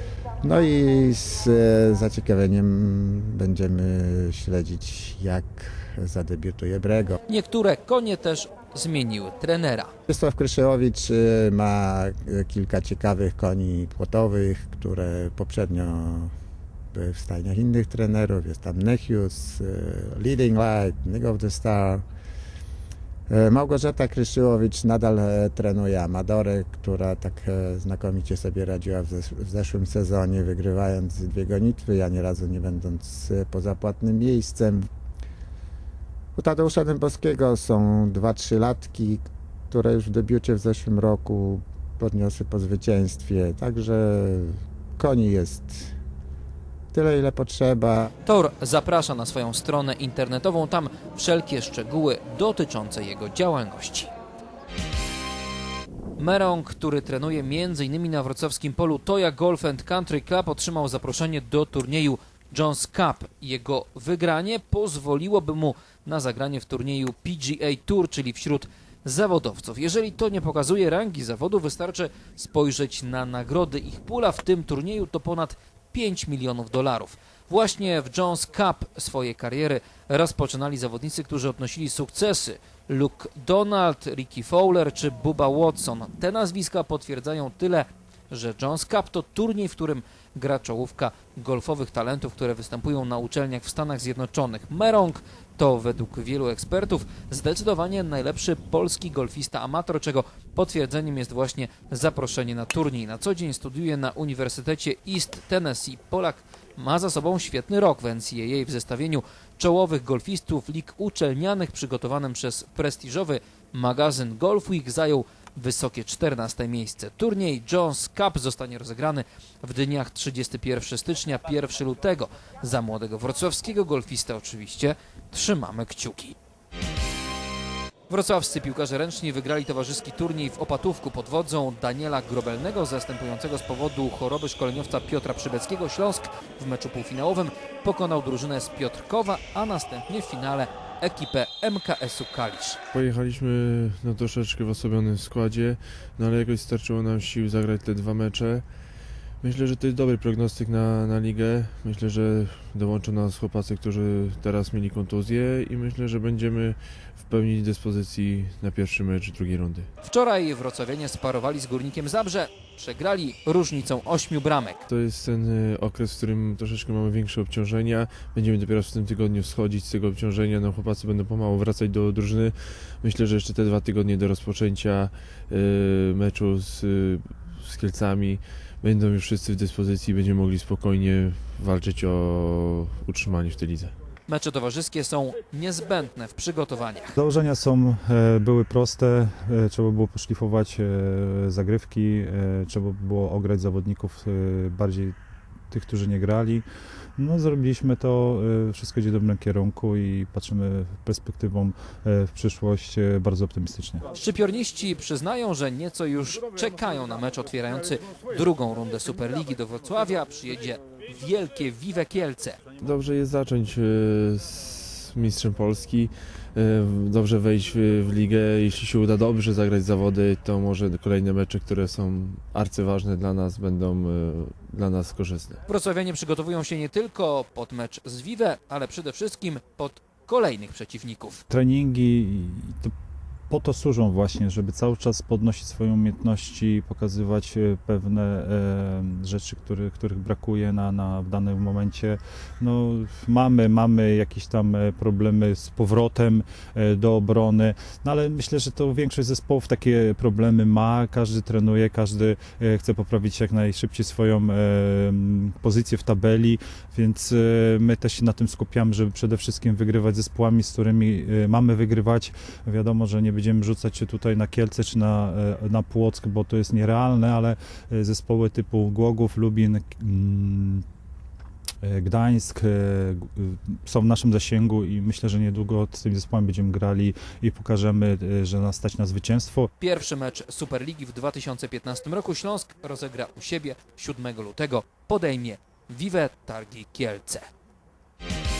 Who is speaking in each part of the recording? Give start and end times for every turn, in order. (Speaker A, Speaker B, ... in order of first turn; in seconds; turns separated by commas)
Speaker A: 0.4-7.2, Speaker B: 7.3-9.9, Speaker A: 10.1-16.3, Speaker A: 16.9-22.0, Speaker A: 23.3-34.9, Speaker A: 36.4-45.9, Speaker A: 46.9-48.1, Speaker B: 48.2-54.1, Speaker B: 56.2-126.4, Speaker B: 128.1-142.8, Speaker C: 142.9-148.7, Speaker C: 149.3-159.9, Speaker B: 160.0-164.8, Speaker C: 164.9-183.9, Speaker B: 184.3-187.2, Speaker D: 187.2-195.1, Speaker D: 195.7-196.6, Speaker D: 197.2-204.0, Speaker B: 204.1-212.6, Speaker C: 212.8-225.6, Speaker B: 225.7-231.4, Speaker D: 231.5-232.9, Speaker D: 233.5-270.8, Speaker D: 271.8-279.7, Speaker B: 279.8-287.5